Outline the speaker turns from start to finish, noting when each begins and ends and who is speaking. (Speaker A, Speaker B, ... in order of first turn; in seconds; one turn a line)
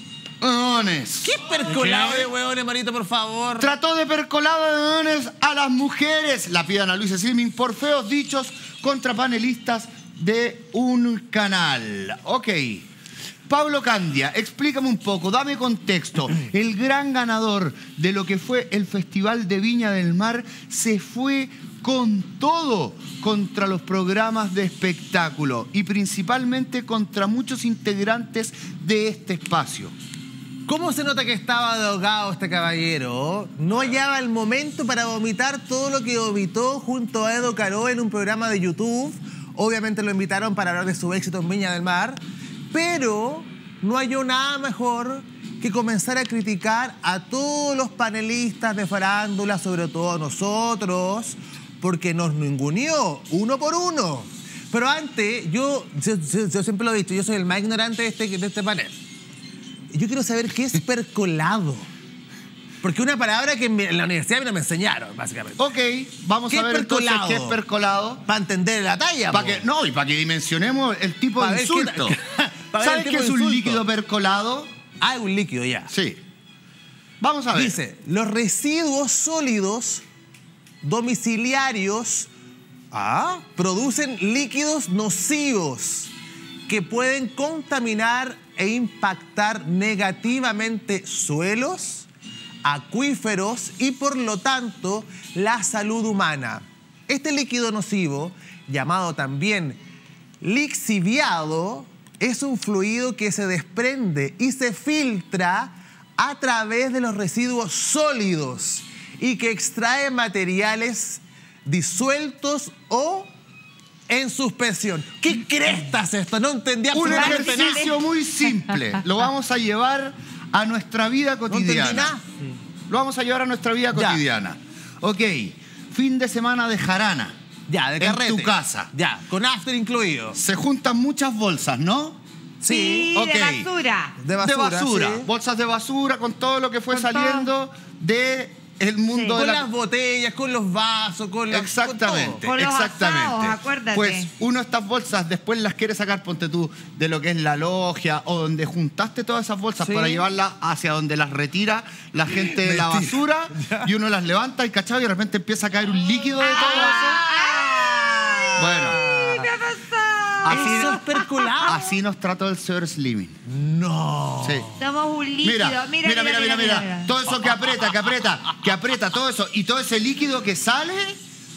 Speaker A: 0.4-2.3
Speaker B: 1.2-3.7
Speaker A: 3.6-12.9
Speaker A: 13.5-29.9
Speaker B: 30.6-59.0
Speaker B: 59.9-61.9
Speaker B: 62.8-65.6
Speaker A: 65.6-68.2
Speaker B: 66.5-67.6
Speaker B: 68.2-69.7
Speaker A: 69.3-72.2
Speaker B: 71.4-73.8
Speaker A: 72.8-74.7
Speaker B: 75.0-75.9
Speaker A: 75.9-76.2
Speaker A: 77.2-77.8
Speaker B: 77.5-80.0
Speaker B: 80.8-82.3
Speaker B: 82.9-86.1
Speaker B: 86.7-92.1
Speaker B: 92.6-99.8
Speaker B: 100.4-113.3
Speaker B: 114.1-117.9
Speaker A: 116.9-122.1
Speaker C: 117.0-117.9
Speaker B: 121.5-122.5
Speaker A: 122.9-127.3
Speaker B: 123.9-124.2
Speaker B: 127.7-130.4
Speaker A: 128.0-128.9
Speaker A: 130.3-132.2
Speaker B: 132.6-133.2
Speaker C: 132.7-134.1
Speaker A: 133.1-133.7
Speaker B: 134.2-135.3
Speaker A: 134.4-139.7
Speaker C: 136.9-137.5
Speaker C: 139.1-139.4
Speaker B: 139.3-142.4
Speaker A: 141.5-157.2
Speaker C: 142.4-144.3
Speaker B: 149.8-150.2
Speaker B: 152.3-153.9
Speaker C: 156.4-161.8
Speaker B: 156.8-159.5
Speaker A: 158.6-159.0
Speaker A: 160.4-161.0
Speaker B: 160.5-161.8
Speaker A: 161.6-163.4
Speaker B: 163.5-164.9
Speaker A: 164.4-164.7
Speaker C: 164.8-167.2
Speaker A: 165.4-171.2